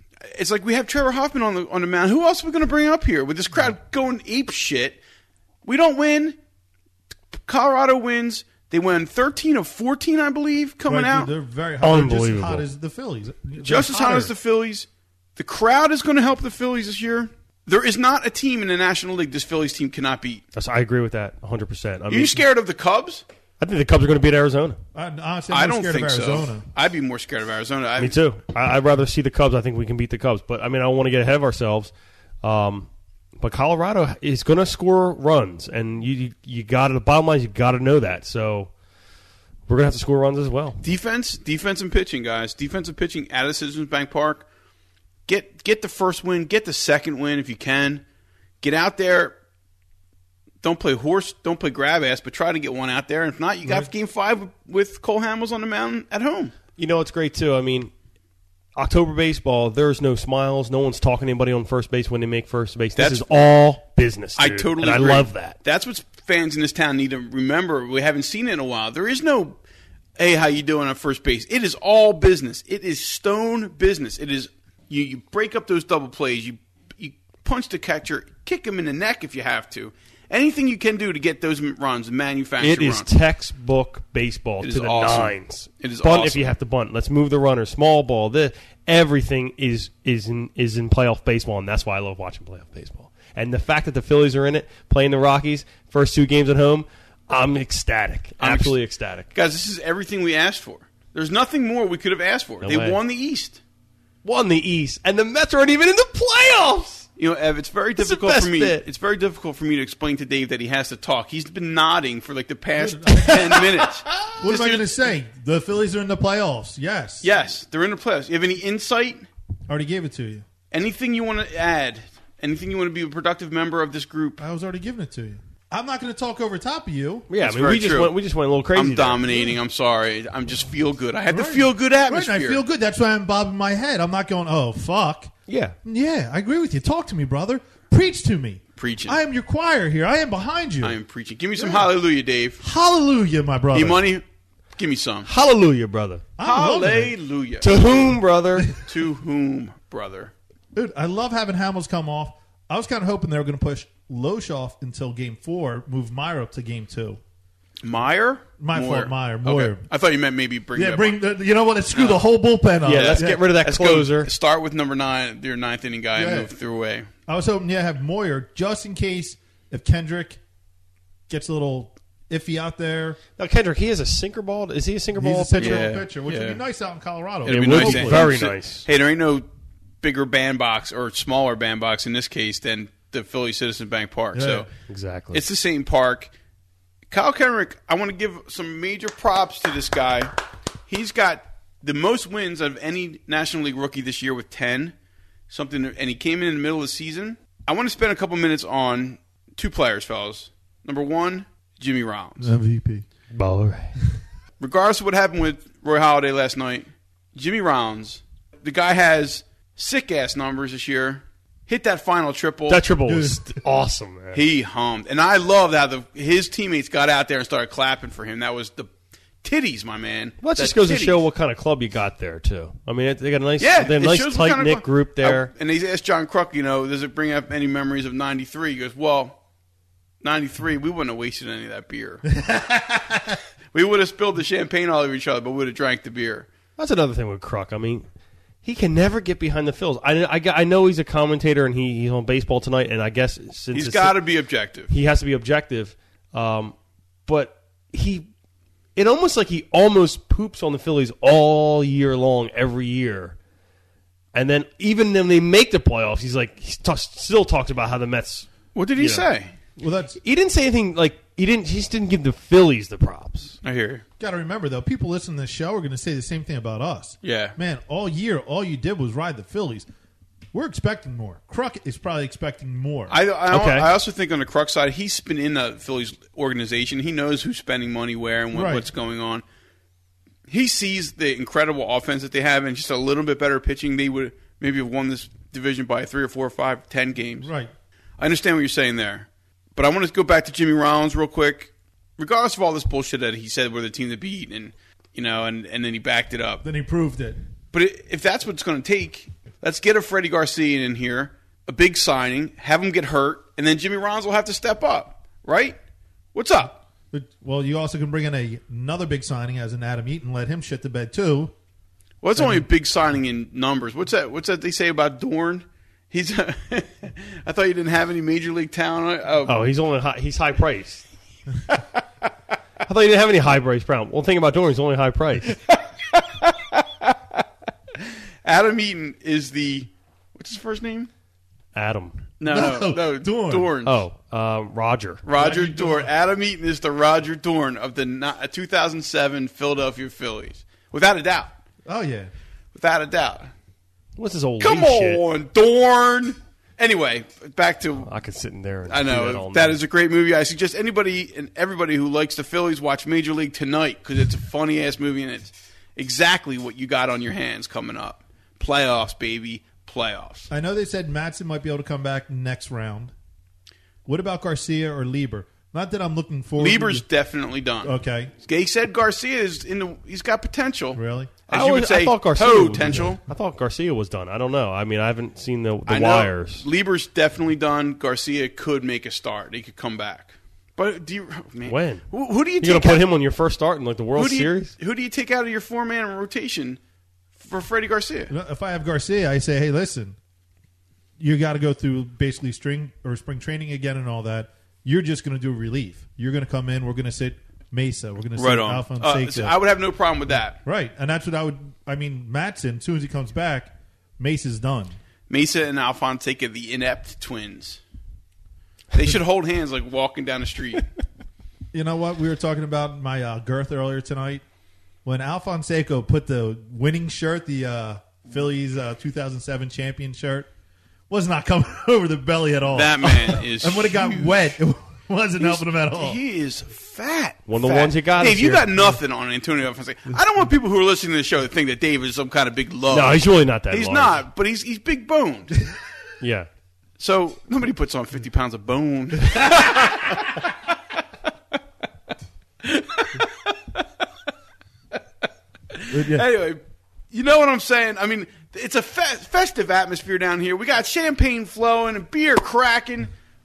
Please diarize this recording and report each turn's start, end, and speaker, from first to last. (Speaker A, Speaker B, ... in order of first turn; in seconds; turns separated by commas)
Speaker A: 0.3-5.0, Speaker A: 5.7-6.4, Speaker A: 7.5-11.3, Speaker B: 10.9-14.3, Speaker C: 11.8-12.7, Speaker A: 13.6-20.4, Speaker C: 20.6-22.4, Speaker A: 22.1-23.2, Speaker C: 23.6-24.8, Speaker B: 24.9-26.6, Speaker A: 25.5-28.2, Speaker C: 28.0-31.9, Speaker C: 32.4-32.9, Speaker C: 33.4-38.7, Speaker C: 39.7-40.8, Speaker A: 40.8-44.5, Speaker A: 45.3-48.0, Speaker A: 48.6-49.3, Speaker A: 50.6-56.5, Speaker B: 53.6-53.9, Speaker C: 56.8-57.9, Speaker C: 58.8-65.6, Speaker A: 63.0-63.5, Speaker A: 64.4-69.6, Speaker A: 70.2-83.1, Speaker C: 82.6-99.3, Speaker A: 84.6-86.5, Speaker A: 98.4-98.8, Speaker A: 99.3-103.6, Speaker C: 102.6-103.0, Speaker C: 104.2-107.1, Speaker A: 107.2-114.9, Speaker C: 108.0-108.8, Speaker B: 112.8-117.3, Speaker A: 117.2-119.3, Speaker B: 119.7-120.5, Speaker A: 120.7-124.4, Speaker B: 124.4-127.3, Speaker C: 127.3-129.4, Speaker A: 127.4-128.2, Speaker A: 128.8-132.6, Speaker B: 131.3-135.3, Speaker C: 135.5-135.8, Speaker B: 135.8-141.0, Speaker A: 138.8-139.2, Speaker A: 140.8-142.6, Speaker B: 141.6-141.9, Speaker B: 142.6-144.1, Speaker A: 143.7-144.2, Speaker A: 144.8-145.3, Speaker C: 145.3-146.3, Speaker B: 146.4-147.1, Speaker A: 146.4-148.2, Speaker C: 147.6-148.8, Speaker A: 148.7-150.3, Speaker B: 150.7-157.2, Speaker A: 157.8-161.2, Speaker B: 158.6-159.9, Speaker B: 160.8-163.5, Speaker A: 161.9-162.2, Speaker C: 162.8-164.3, Speaker A: 162.9-167.1, Speaker B: 166.1-166.5, Speaker B: 167.3-170.4, Speaker B: 171.3-173.2, Speaker C: 173.4-175.8, Speaker B: 175.2-178.3, Speaker A: 175.6-176.6, Speaker A: 177.4-179.5, Speaker C: 177.5-178.9, Speaker A: 180.0-184.7, Speaker B: 184.3-184.7, Speaker C: 184.9-185.4, Speaker A: 185.3-186.3, Speaker A: 187.1-190.3, Speaker A: 190.9-194.9, Speaker A: 195.5-202.5, Speaker B: 202.4-203.1, Speaker C: 203.3-203.9, Speaker A: 204.6-212.8, Speaker C: 212.7-214.4, Speaker B: 213.1-213.6, Speaker A: 214.3-218.9, Speaker A: 219.4-221.2, Speaker C: 220.4-225.5, Speaker A: 223.6-229.4, Speaker A: 230.2-232.3, Speaker B: 232.3-233.4, Speaker A: 233.7-236.5, Speaker C: 236.8-238.1, Speaker C: 238.6-244.2, Speaker A: 243.7-244.9, Speaker C: 244.9-246.8, Speaker C: 247.3-248.3, Speaker C: 249.0-253.4, Speaker C: 254.3-259.3, Speaker A: 258.8-259.5, Speaker B: 259.8-260.2, Speaker C: 260.2-263.6, Speaker A: 263.6-264.0, Speaker B: 264.2-269.9, Speaker A: 267.2-267.6, Speaker B: 270.5-273.2, Speaker A: 273.1-279.4, Speaker C: 273.5-273.9, Speaker B: 278.5-278.9, Speaker A: 280.5-287.5, Speaker B: 287.4-287.7, Speaker A: 288.2-296.6, Speaker B: 296.6-297.4, Speaker A: 297.7-305.8, Speaker A: 306.3-306.8, Speaker B: 307.1-311.5, Speaker A: 312.2-319.7, Speaker B: 312.4-312.6, Speaker C: 319.5-321.1, Speaker C: 322.9-325.6, Speaker A: 325.7-327.4, Speaker A: 328.4-331.1, Speaker C: 331.7-332.2, Speaker A: 332.4-334.0, Speaker B: 332.5-333.7, Speaker C: 333.8-335.2, Speaker A: 335.2-341.5, Speaker B: 335.4-336.1, Speaker B: 341.9-342.3, Speaker A: 342.8-343.5, Speaker C: 344.2-345.2, Speaker A: 344.6-348.1, Speaker C: 348.0-349.8, Speaker A: 348.9-360.5, Speaker B: 360.5-363.1, Speaker B: 364.1-367.1, Speaker A: 366.6-373.2, Speaker B: 367.8-368.3, Speaker B: 371.0-371.3, Speaker C: 371.5-376.6, Speaker A: 375.9-383.1, Speaker C: 381.6-382.1, Speaker C: 382.6-384.7, Speaker A: 384.2-386.8, Speaker A: 387.4-388.3, Speaker B: 388.3-390.2, Speaker B: 391.2-399.6, Speaker A: 398.4-400.6, Speaker B: 400.6-404.9, Speaker A: 405.3-407.8, Speaker A: 408.9-410.9, Speaker B: 411.7-414.4, Speaker B: 415.1-420.5, Speaker B: 421.1-426.2, Speaker A: 422.7-424.4, Speaker A: 425.4-435.6, Speaker C: 427.5-429.0, Speaker C: 432.9-434.2, Speaker C: 436.2-436.5, Speaker A: 437.0-440.4, Speaker A: 442.6-443.9, Speaker A: 445.7-446.6, Speaker B: 445.9-446.3, Speaker A: 447.1-453.1